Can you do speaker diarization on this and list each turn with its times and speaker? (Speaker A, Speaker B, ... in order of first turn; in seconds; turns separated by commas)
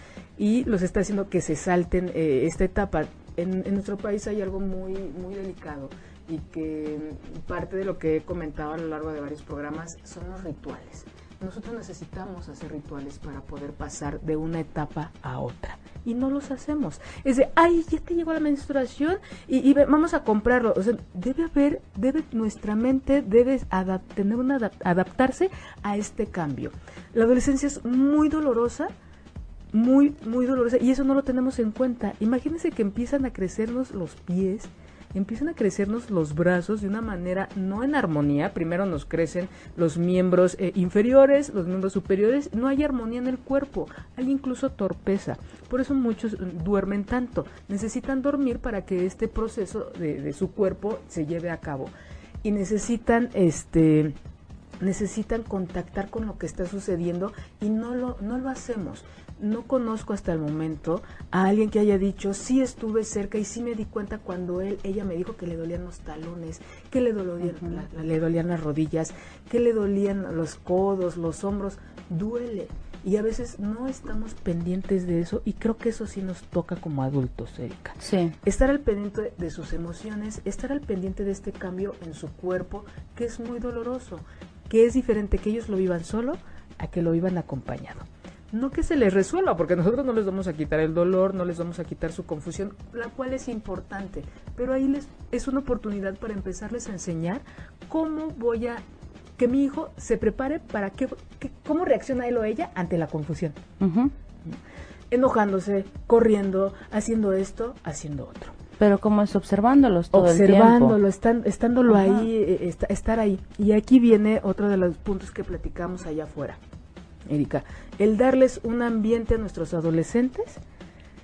Speaker A: 0.4-28.9, Speaker A: 29.7-51.9, Speaker A: 52.4-54.1, Speaker A: 54.8-98.8, Speaker B: 67.5-67.8, Speaker B: 78.0-78.3, Speaker A: 99.4-103.6, Speaker B: 103.8-104.1, Speaker A: 105.1-108.5, Speaker B: 108.8-111.0, Speaker A: 110.1-116.6, Speaker B: 111.9-112.3, Speaker A: 117.3-120.6